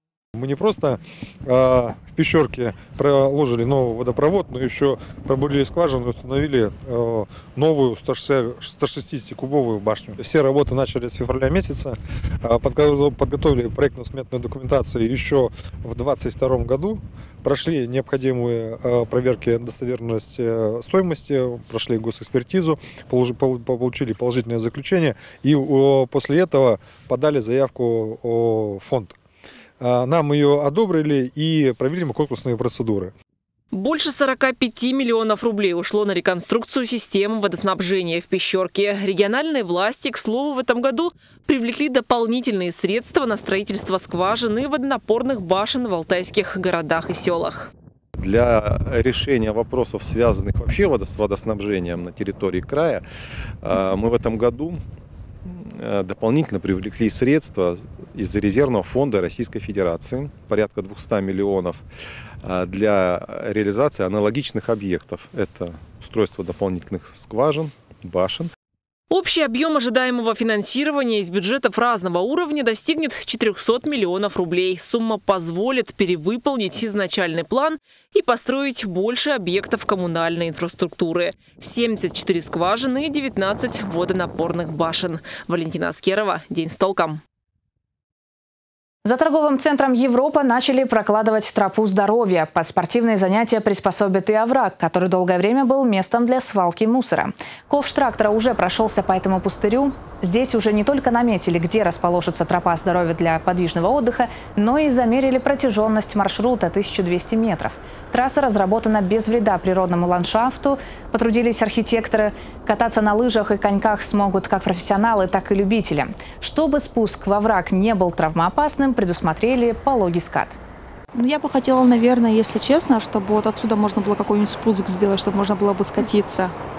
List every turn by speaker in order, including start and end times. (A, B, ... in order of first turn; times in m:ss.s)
0:00.4-0:29.2 A
0:29.8-0:33.1 A
0:33.7-0:47.7 B
0:48.2-0:53.0 C
0:53.6-0:54.8 C
0:55.5-1:01.8 C
1:02.4-1:08.5 C
1:09.1-1:27.2 B
1:29.0-2:00.6 D
2:01.1-2:06.5 E